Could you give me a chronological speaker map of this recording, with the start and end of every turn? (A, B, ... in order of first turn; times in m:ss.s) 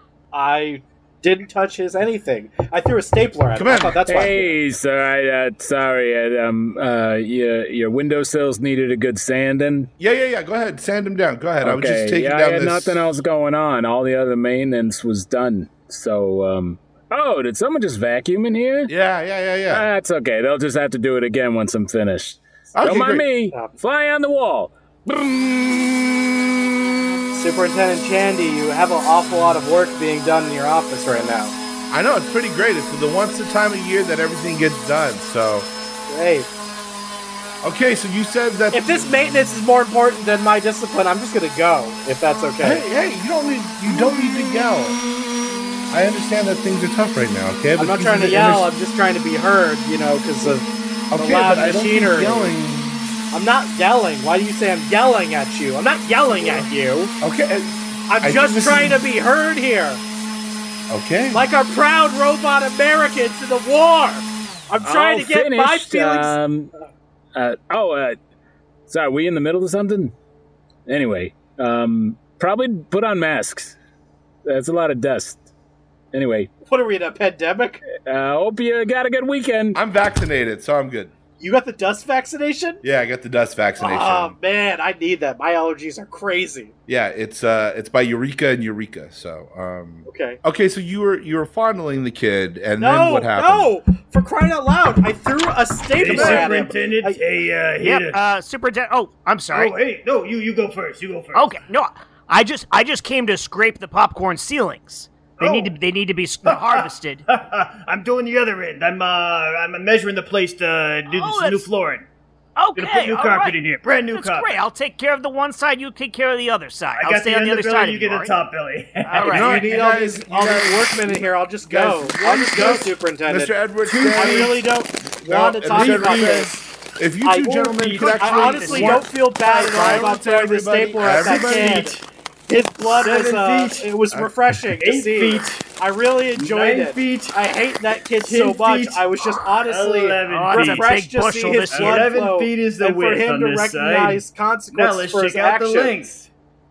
0:00.3-0:04.5 A
0:03.5-0:04.0 B
0:04.1-0:09.9 C
0:10.0-0:13.0 B
0:11.6-0:18.9 C
0:18.9-0:19.8 B
0:19.7-0:26.5 C
0:22.8-0:23.2 B
0:27.4-0:31.5 A
0:31.9-0:35.7 B
0:36.1-0:36.5 A
0:37.6-0:39.2 B
0:38.7-0:42.8 A
0:42.6-0:45.0 B
0:45.9-0:48.7 B
0:47.8-0:52.5 A
0:51.1-0:53.2 B
0:53.3-0:57.1 A
0:56.3-0:56.7 D
0:57.2-0:59.0 B
0:58.1-1:00.0 A
1:00.9-1:01.4 B
1:01.3-1:06.4 A
1:04.8-1:06.7 C
1:07.3-1:08.2 C
1:08.9-1:10.1 C
1:10.9-1:13.8 C
1:14.4-1:15.5 C
1:16.1-1:16.5 C
1:16.7-1:17.8 A
1:18.0-1:19.8 C
1:19.7-1:21.1 B
1:21.4-1:22.8 A
1:22.8-1:24.4 B
1:23.8-1:26.7 A
1:26.9-1:33.7 B
1:30.0-1:30.4 A
1:32.8-1:37.2 A
1:35.9-1:38.3 D
1:36.0-1:36.5 B
1:37.8-1:39.7 E
1:39.5-1:41.6 D
1:41.3-1:47.2 E
1:45.4-1:45.7 D
1:46.4-1:52.1 D
1:51.1-1:51.7 E
1:52.6-1:58.4 E
1:52.8-1:54.6 D
1:56.9-1:59.6 D
1:59.0-1:59.5 E
1:59.2-2:03.6 A
1:59.3-2:04.6 B
2:02.5-2:02.8 D
2:03.8-2:04.6 D
2:04.1-2:06.6 A
2:05.2-2:11.9 B
2:05.7-2:06.5 D
2:07.2-2:11.9 A
2:07.6-2:08.9 D
2:08.3-2:10.1 E
2:11.0-2:12.0 D
2:12.5-2:26.1 A
2:12.8-2:13.9 D
2:14.8-2:15.7 D
2:16.3-2:17.4 D
2:18.2-2:20.9 D
2:20.3-2:22.1 E
2:21.7-2:26.3 D